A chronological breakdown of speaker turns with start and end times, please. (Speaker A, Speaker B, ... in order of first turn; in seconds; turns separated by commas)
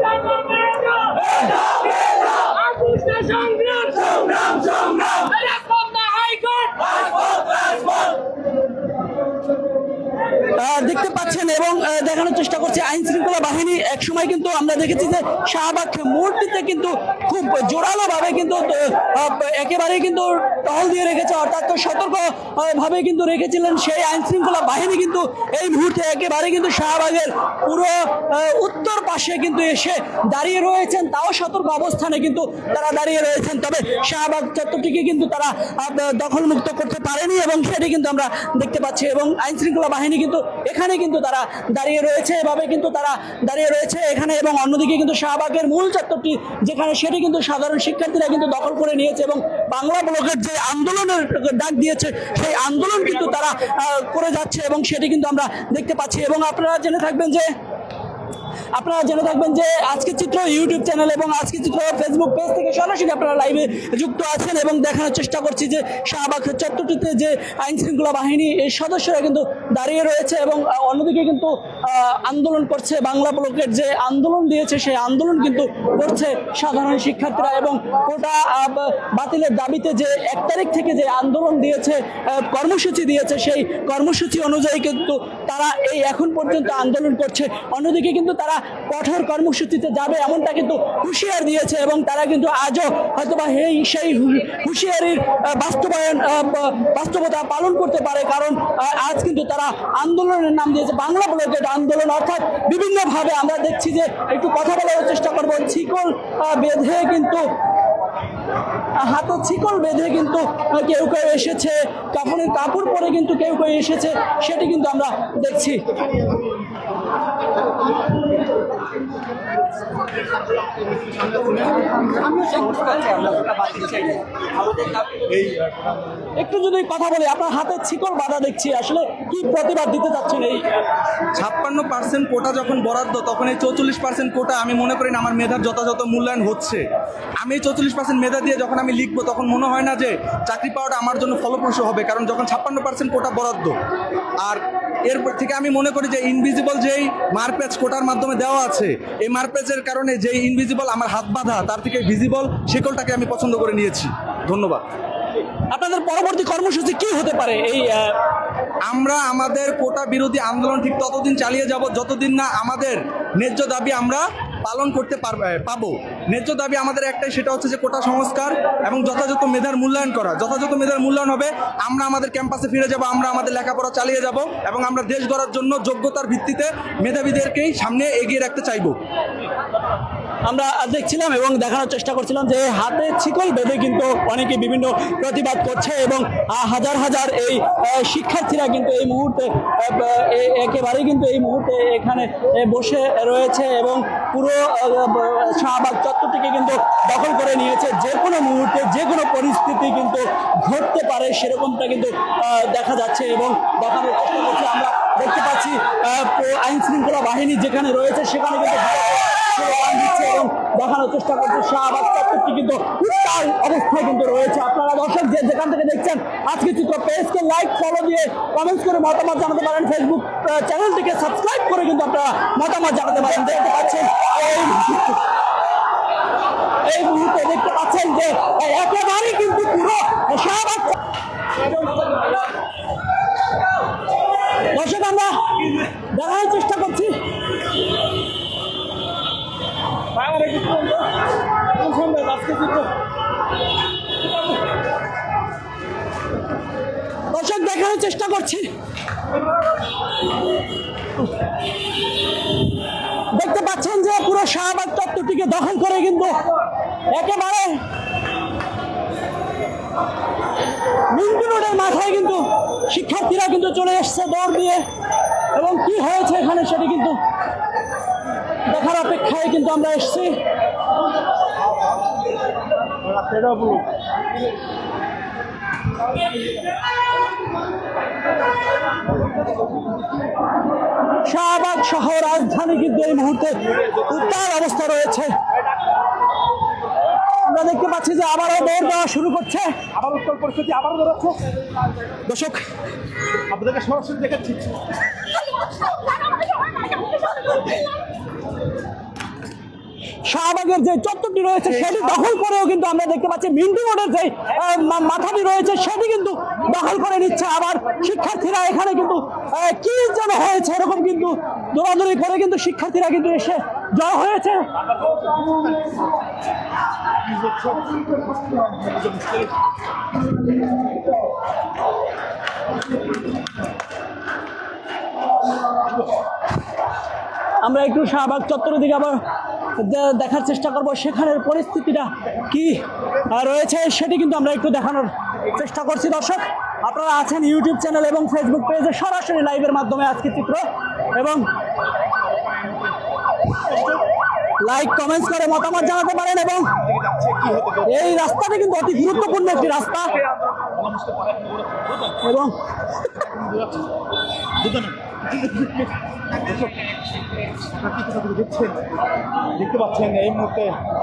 Speaker A: 0.5-8.2, Speaker A: 10.5-57.5, Speaker A: 58.7-107.4, Speaker A: 109.0-115.9, Speaker B: 125.2-125.8, Speaker A: 126.4-130.7, Speaker C: 131.3-136.8, Speaker C: 137.4-143.7, Speaker C: 144.4-154.8, Speaker A: 155.7-158.2, Speaker C: 158.9-178.9, Speaker A: 180.4-225.2, Speaker A: 226.8-230.9, Speaker A: 234.7-237.2, Speaker B: 240.2-241.1, Speaker B: 241.8-242.9, Speaker A: 247.3-248.7, Speaker A: 253.3-256.4, Speaker A: 257.1-257.8, Speaker A: 261.1-264.8, Speaker A: 265.5-267.2, Speaker A: 268.7-270.4, Speaker B: 273.0-273.9, Speaker A: 281.2-285.3, Speaker A: 287.4-289.8, Speaker B: 289.9-291.5, Speaker A: 292.3-292.6, Speaker B: 293.5-294.8, Speaker A: 300.2-314.7, Speaker B: 314.8-315.9, Speaker B: 317.2-319.6, Speaker A: 327.6-329.2, Speaker A: 329.8-341.5, Speaker B: 342.4-342.9, Speaker B: 343.7-344.0, Speaker A: 344.6-346.7, Speaker B: 346.7-348.2, Speaker A: 347.8-350.1, Speaker B: 349.0-352.2, Speaker A: 352.2-352.6, Speaker B: 353.1-353.9, Speaker B: 354.6-355.9, Speaker B: 357.7-358.8, Speaker B: 359.5-360.8